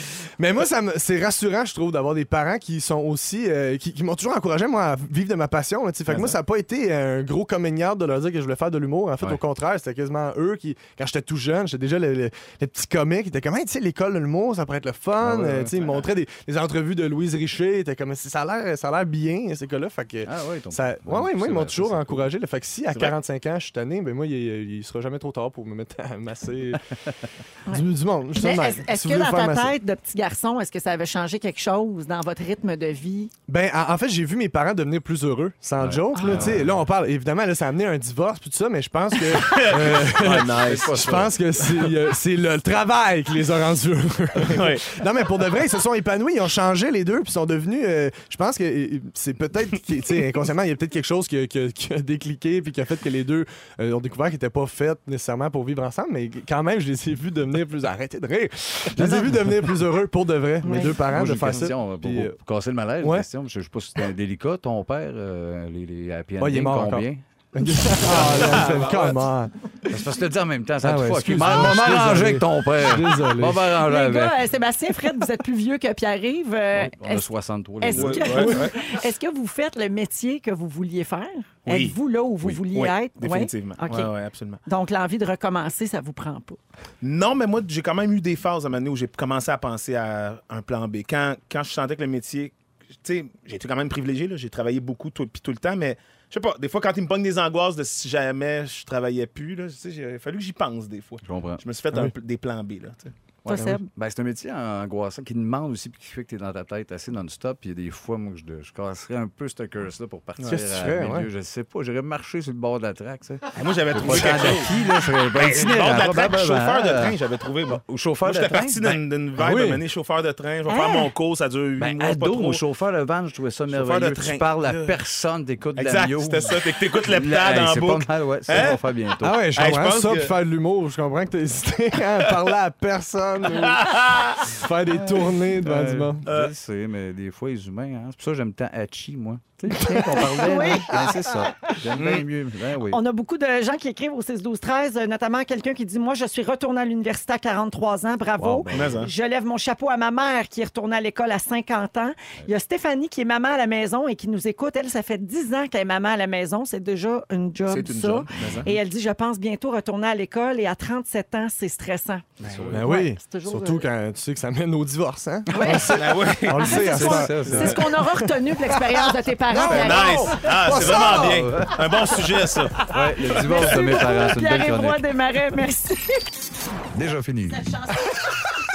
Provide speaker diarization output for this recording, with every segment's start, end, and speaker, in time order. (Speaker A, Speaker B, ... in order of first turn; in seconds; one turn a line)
Speaker A: 0.4-26.9
Speaker B: 15.2-15.7
Speaker B: 20.2-22.2
Speaker A: 27.7-29.8
Speaker C: 28.4-33.3
Speaker A: 33.5-62.3
Speaker B: 35.8-36.7
Speaker C: 36.1-36.4
Speaker D: 39.3-41.2
Speaker B: 40.5-41.3
Speaker D: 44.5-44.9
Speaker B: 59.0-59.7
Speaker C: 60.6-60.9
Speaker B: 60.9-67.2
Speaker A: 63.0-63.3
Speaker A: 66.4-69.5
Speaker D: 68.1-69.2
Speaker B: 68.2-68.7
Speaker B: 69.9-74.4
Speaker A: 70.8-73.7
Speaker C: 73.8-77.2
Speaker B: 76.7-78.6
Speaker C: 77.8-84.1
Speaker D: 77.9-78.8
Speaker D: 81.7-84.6
Speaker C: 84.7-86.6
Speaker D: 87.0-103.1
Speaker B: 101.2-101.6
Speaker B: 103.5-117.2
Speaker C: 103.5-103.8
Speaker A: 110.5-111.3
Speaker D: 113.5-114.7
Speaker D: 115.3-122.6
Speaker B: 117.9-119.0
Speaker A: 119.4-119.8
Speaker C: 120.7-121.1
Speaker B: 121.8-129.5
Speaker D: 123.7-124.5
Speaker D: 125.8-128.8
Speaker A: 129.2-136.3
Speaker D: 129.6-130.3
Speaker D: 133.5-134.4
Speaker B: 134.9-143.0
Speaker D: 136.3-136.5
Speaker A: 139.7-141.5
Speaker C: 140.4-140.9
Speaker D: 142.0-142.2
Speaker C: 142.9-163.9
Speaker B: 148.4-149.1
Speaker D: 148.7-149.1
Speaker D: 157.7-158.7
Speaker B: 158.4-158.7
Speaker D: 162.4-162.7
Speaker B: 162.5-162.8
Speaker A: 162.7-169.0
Speaker C: 165.5-165.9
Speaker D: 165.7-166.9
Speaker B: 166.7-167.8
Speaker C: 166.9-170.3
Speaker D: 167.4-167.8
Speaker A: 169.5-171.8
Speaker D: 169.7-172.9
Speaker B: 170.9-171.7
Speaker B: 172.8-175.1
Speaker C: 172.9-176.3
Speaker B: 176.9-177.7
Speaker C: 177.6-178.3